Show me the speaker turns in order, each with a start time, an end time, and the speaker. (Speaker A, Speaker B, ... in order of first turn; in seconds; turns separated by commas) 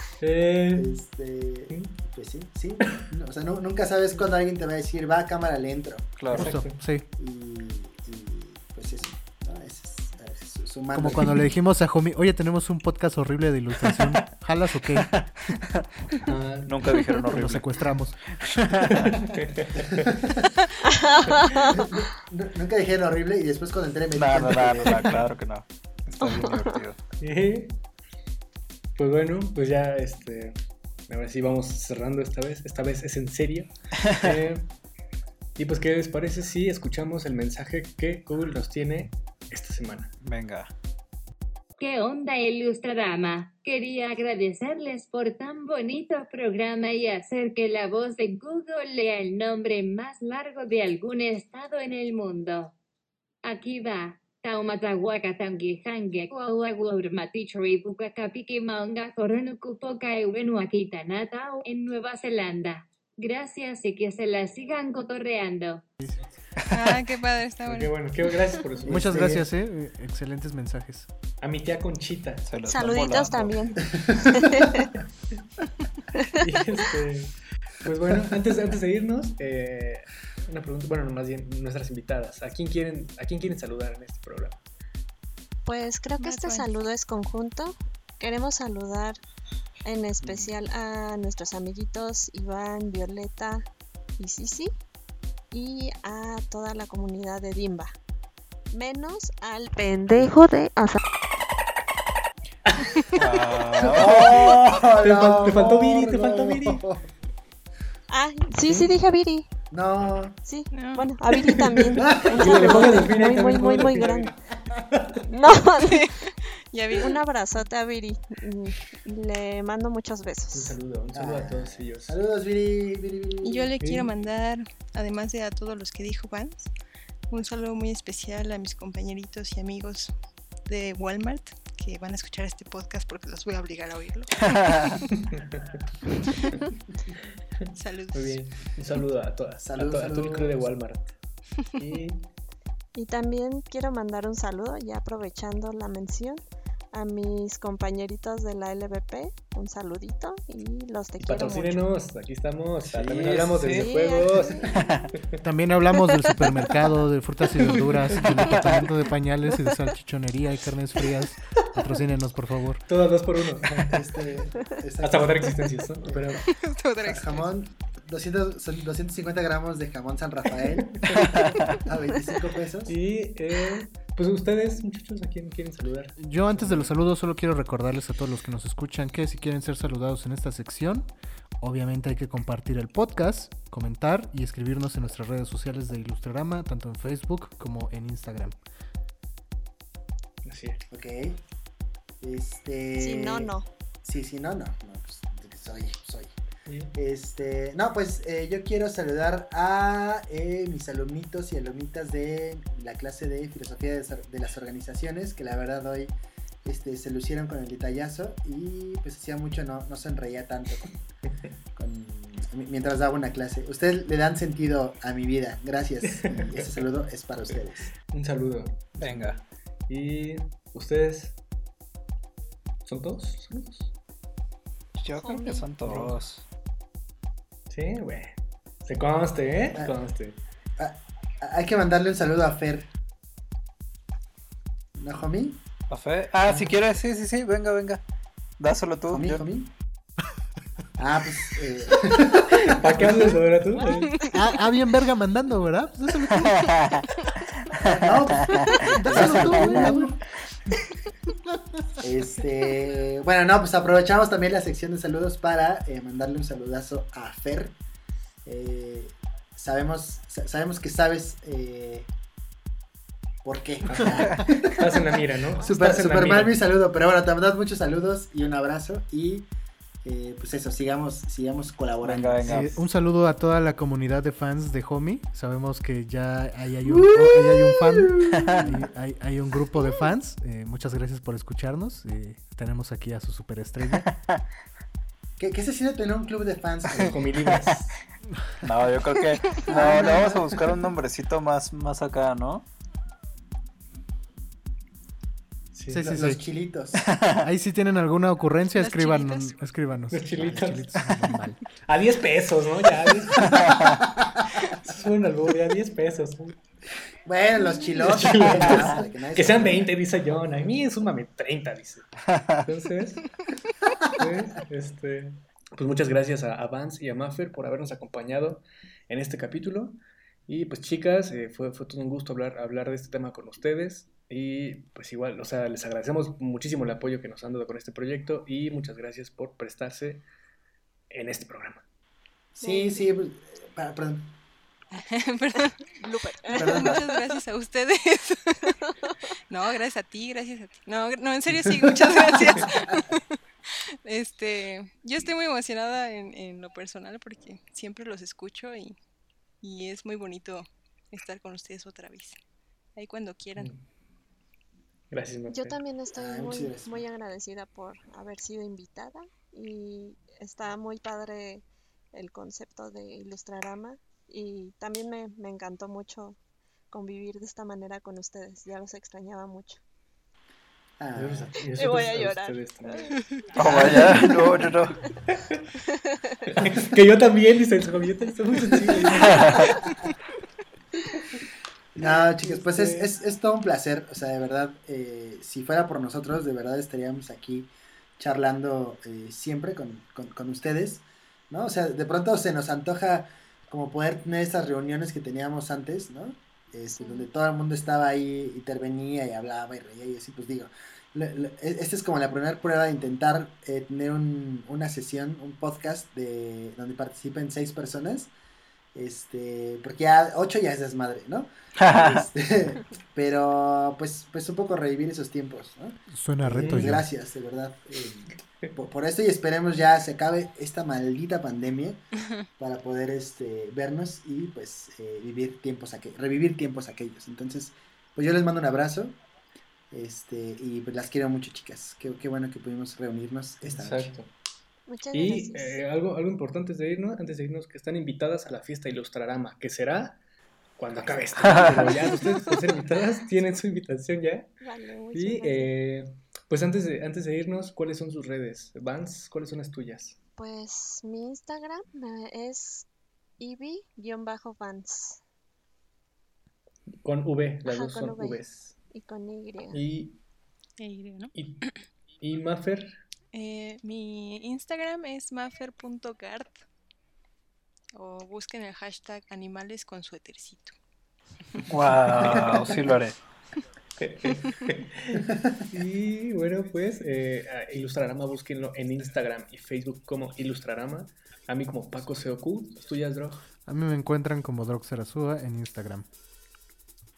Speaker A: 0.2-0.9, Speaker B: 0.8-6.4, Speaker C: 6.2-6.6, Speaker D: 6.3-7.1, Speaker A: 6.4-6.8, Speaker B: 7.2-11.4, Speaker D: 10.9-15.2, Speaker A: 16.2-17.1, Speaker C: 16.7-17.8, Speaker D: 17.3-19.1, Speaker A: 18.9-20.1, Speaker B: 19.9-20.5, Speaker E: 20.9-21.8, Speaker B: 21.7-25.2, Speaker C: 24.1-27.0, Speaker E: 26.2-26.7, Speaker A: 27.2-27.8, Speaker A: 28.9-30.6, Speaker A: 31.1-34.7, Speaker A: 35.6-40.1, Speaker C: 40.2-40.7, Speaker F: 41.8-52.7, Speaker F: 53.5-65.8, Speaker C: 66.6-67.0, Speaker G: 66.7-67.9, Speaker A: 67.7-69.4, Speaker B: 68.8-69.5, Speaker D: 68.9-71.1, Speaker A: 71.4-72.5, Speaker C: 72.5-73.6, Speaker E: 72.6-74.9, Speaker A: 76.4-84.6, Speaker E: 85.7-89.2, Speaker G: 86.2-86.7, Speaker E: 89.9-93.7, Speaker E: 94.2-94.7, Speaker E: 95.5-98.0, Speaker E: 98.7-101.0, Speaker A: 102.7-106.8, Speaker C: 103.2-104.6, Speaker B: 103.9-107.1, Speaker E: 108.1-109.5, Speaker B: 109.7-110.4, Speaker E: 110.5-114.3, Speaker G: 110.7-111.0, Speaker A: 111.5-114.4, Speaker B: 112.0-113.0, Speaker A: 114.9-115.2, Speaker E: 115.3-116.1, Speaker G: 115.8-117.2, Speaker E: 117.0-120.8, Speaker A: 120.5-122.2, Speaker B: 121.1-123.7, Speaker G: 123.4-126.7, Speaker A: 123.8-124.1, Speaker G: 127.3-130.1, Speaker G: 130.7-135.1, Speaker C: 134.5-135.0, Speaker A: 135.2-135.8, Speaker G: 136.2-136.6, Speaker A: 137.6-141.1, Speaker G: 137.8-138.8, Speaker B: 139.6-140.7, Speaker A: 141.8-142.2, Speaker E: 143.0-146.4, Speaker E: 146.9-151.8, Speaker A: 151.2-154.7, Speaker C: 152.9-154.0, Speaker E: 153.7-154.9, Speaker C: 154.7-155.1, Speaker D: 155.4-162.8, Speaker A: 158.1-158.5, Speaker A: 162.9-164.2, Speaker B: 163.8-166.5, Speaker A: 165.0-166.5, Speaker G: 166.5-167.5, Speaker B: 167.0-173.0, Speaker A: 170.9-171.4, Speaker A: 172.9-176.9, Speaker D: 176.2-181.1, Speaker D: 181.6-188.6, Speaker A: 190.4-190.8, Speaker B: 190.9-191.4, Speaker B: 192.2-193.5, Speaker E: 193.0-193.7, Speaker B: 194.0-196.3, Speaker A: 196.7-196.9, Speaker B: 196.9-206.1, Speaker B: 206.7-211.0, Speaker B: 211.8-217.9, Speaker A: 216.1-216.7, Speaker A: 218.1-221.4, Speaker C: 219.0-219.4, Speaker A: 222.9-223.9, Speaker C: 225.0-226.4, Speaker E: 225.1-225.7, Speaker A: 225.9-226.2, Speaker A: 227.7-230.4, Speaker B: 230.8-232.9, Speaker B: 235.0-235.6, Speaker C: 235.9-238.0, Speaker C: 238.6-239.5, Speaker B: 239.1-239.7, Speaker B: 241.0-243.3, Speaker A: 242.7-244.2, Speaker E: 244.1-244.3, Speaker D: 244.3-246.9, Speaker C: 246.3-247.1, Speaker C: 247.7-249.9, Speaker B: 247.8-250.1, Speaker E: 248.6-249.0, Speaker D: 248.8-250.2, Speaker B: 252.0-257.8, Speaker B: 258.4-262.1, Speaker B: 263.4-269.5, Speaker A: 263.9-266.6, Speaker B: 270.0-272.7, Speaker C: 272.0-272.7, Speaker D: 272.4-284.1, Speaker A: 277.0-278.2, Speaker C: 284.1-284.4, Speaker B: 285.4-287.1, Speaker A: 287.0-288.0, Speaker C: 288.6-292.7, Speaker B: 289.6-290.9, Speaker A: 295.7-296.1, Speaker D: 295.9-296.4, Speaker B: 296.0-297.0, Speaker C: 297.0-297.4, Speaker D: 297.3-301.6, Speaker G: 298.8-299.5, Speaker A: 300.1-300.9, Speaker A: 301.9-303.8, Speaker A: 304.6-306.6, Speaker B: 307.3-309.9, Speaker A: 308.0-313.3, Speaker C: 312.3-312.6, Speaker A: 314.2-330.2, Speaker A: 331.1-331.9, Speaker B: 332.6-334.4, Speaker E: 332.6-333.1, Speaker G: 334.9-335.9, Speaker E: 336.0-337.1, Speaker G: 336.4-338.8, Speaker B: 336.6-337.2, Speaker G: 339.5-343.3, Speaker B: 342.4-342.7, Speaker G: 344.1-349.0, Speaker G: 349.6-352.4, Speaker G: 353.0-353.7, Speaker A: 353.6-353.8, Speaker A: 355.1-355.8, Speaker E: 355.5-366.4, Speaker B: 356.1-357.0, Speaker E: 366.9-369.8, Speaker B: 371.0-371.5, Speaker A: 371.1-374.4, Speaker E: 371.8-373.2, Speaker C: 373.6-375.0, Speaker B: 373.6-374.7, Speaker A: 375.3-375.7, Speaker E: 375.9-376.4, Speaker A: 376.5-379.6, Speaker B: 378.7-379.9, Speaker C: 379.3-379.7, Speaker B: 382.0-408.3, Speaker A: 382.0-383.1, Speaker E: 396.9-397.3, Speaker B: 408.9-422.0, Speaker C: 411.8-412.3, Speaker D: 416.1-417.1, Speaker A: 416.6-417.0, Speaker B: 422.6-429.2, Speaker B: 429.9-434.1, Speaker A: 433.6-434.3, Speaker E: 434.9-435.8, Speaker A: 435.1-440.2, Speaker A: 440.8-444.5, Speaker C: 441.5-441.8, Speaker E: 444.6-445.7, Speaker A: 445.1-450.2, Speaker E: 450.4-452.9, Speaker E: 453.4-455.2, Speaker A: 457.0-458.8, Speaker E: 457.7-459.8, Speaker A: 459.7-460.2, Speaker G: 460.8-461.7, Speaker A: 461.4-461.7, Speaker A: 462.2-463.0, Speaker G: 463.3-466.6, Speaker G: 467.9-470.7, Speaker C: 471.7-473.2, Speaker A: 474.0-475.2, Speaker G: 474.3-474.7, Speaker B: 475.3-475.6, Speaker A: 475.7-483.5, Speaker D: 483.6-486.1